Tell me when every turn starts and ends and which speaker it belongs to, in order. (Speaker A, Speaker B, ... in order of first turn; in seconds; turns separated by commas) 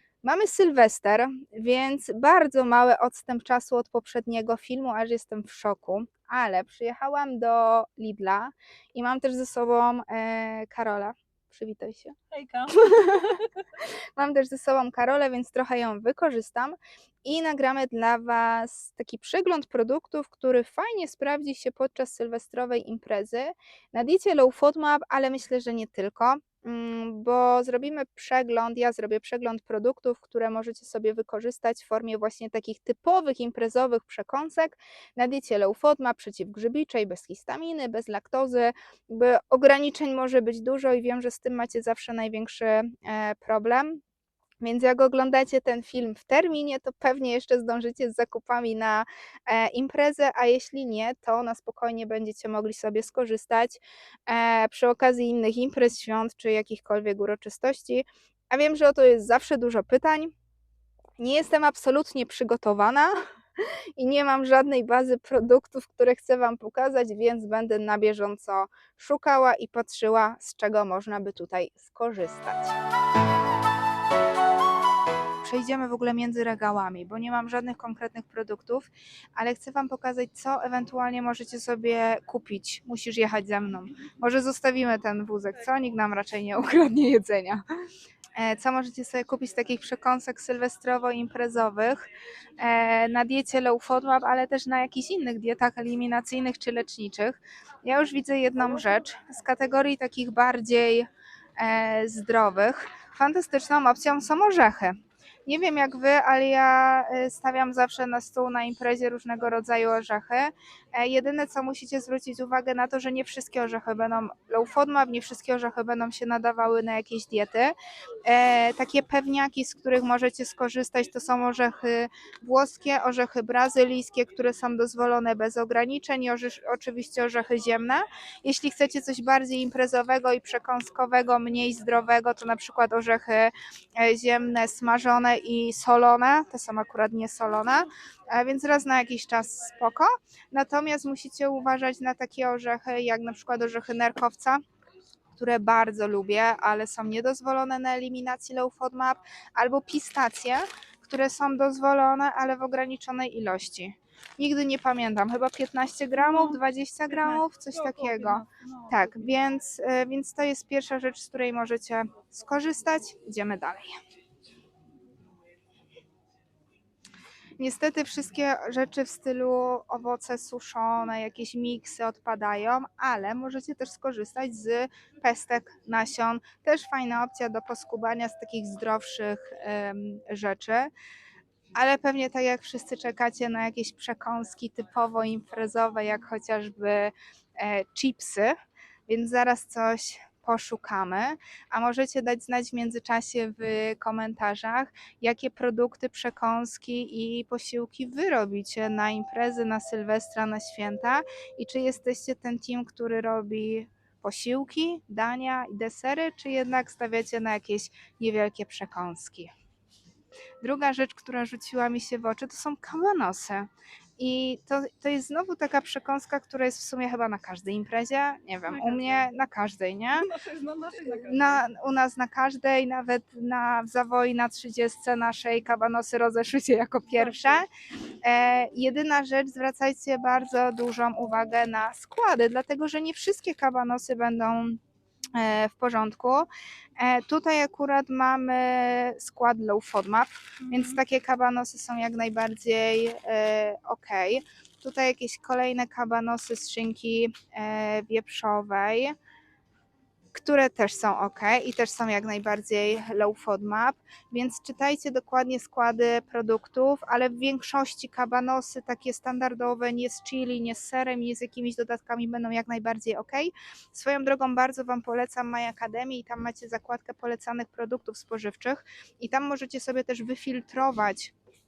Speaker A: 0.2-12.2, Speaker B: 12.3-13.4, Speaker A: 12.7-44.0, Speaker A: 44.6-60.3, Speaker A: 61.2-63.1, Speaker A: 64.0-72.8, Speaker A: 75.4-87.6, Speaker A: 88.4-92.1, Speaker A: 92.6-144.6, Speaker A: 145.3-163.9, Speaker B: 156.2-159.3, Speaker A: 167.6-180.9, Speaker A: 181.8-188.6, Speaker A: 189.1-209.5, Speaker A: 210.6-220.3, Speaker B: 218.7-219.2, Speaker B: 220.2-221.6, Speaker A: 221.2-227.7, Speaker B: 227.1-227.6, Speaker A: 228.2-234.8, Speaker A: 235.4-249.2, Speaker B: 240.6-241.0, Speaker A: 250.3-271.4